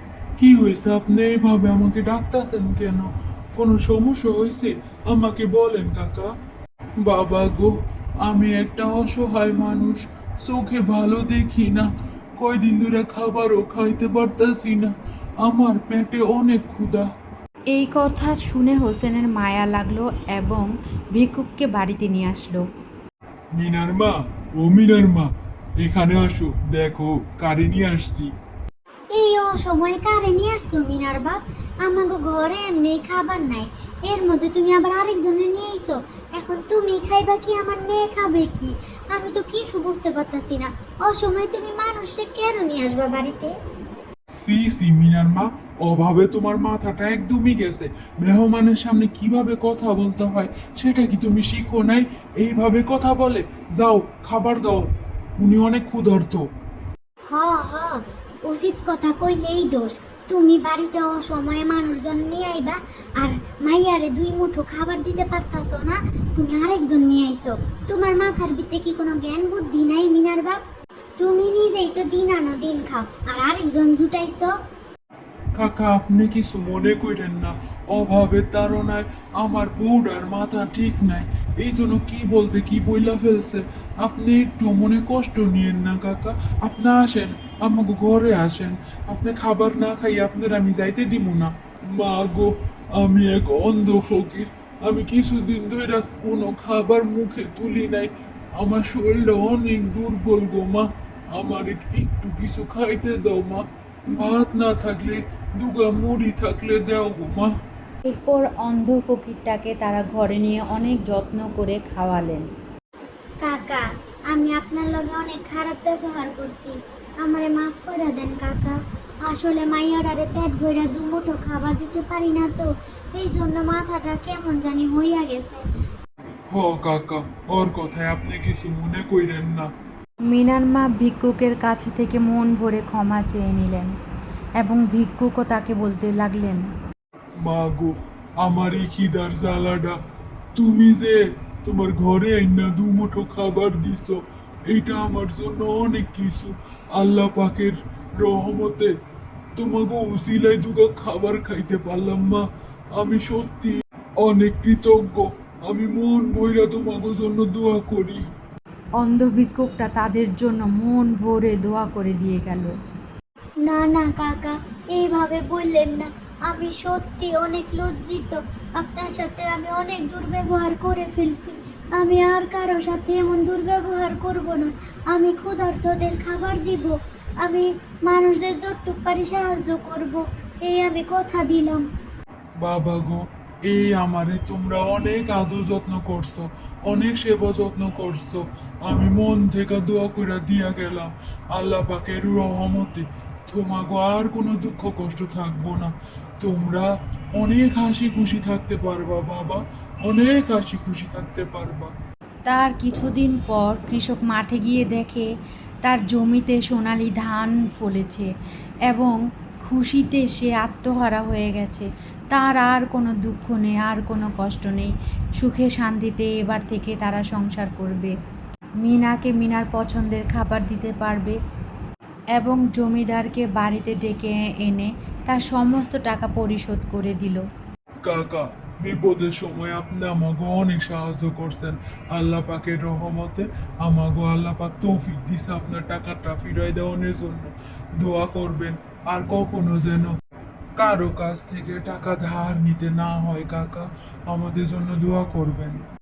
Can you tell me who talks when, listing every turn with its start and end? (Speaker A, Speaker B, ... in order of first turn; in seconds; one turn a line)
Speaker A: 0.4-6.3
Speaker A: 7.0-17.1
Speaker B: 17.7-22.6
Speaker A: 23.5-28.3
Speaker C: 29.1-43.5
Speaker A: 44.3-56.5
Speaker C: 57.3-70.6
Speaker C: 71.2-74.5
Speaker A: 75.5-107.5
Speaker B: 108.0-112.5
Speaker C: 113.4-125.6
Speaker A: 126.5-129.7
Speaker B: 130.3-133.9
Speaker B: 134.6-136.6
Speaker A: 137.4-140.0
Speaker A: 140.5-148.9
Speaker A: 149.6-158.3
Speaker B: 159.0-162.7
Speaker C: 163.6-181.8
Speaker A: 182.6-201.9
Speaker B: 202.4-205.3
Speaker B: 205.8-208.3
Speaker B: 208.9-218.1
Speaker B: 218.8-221.4
Speaker B: 222.3-227.4
Speaker A: 228.0-240.1
Speaker A: 240.8-245.8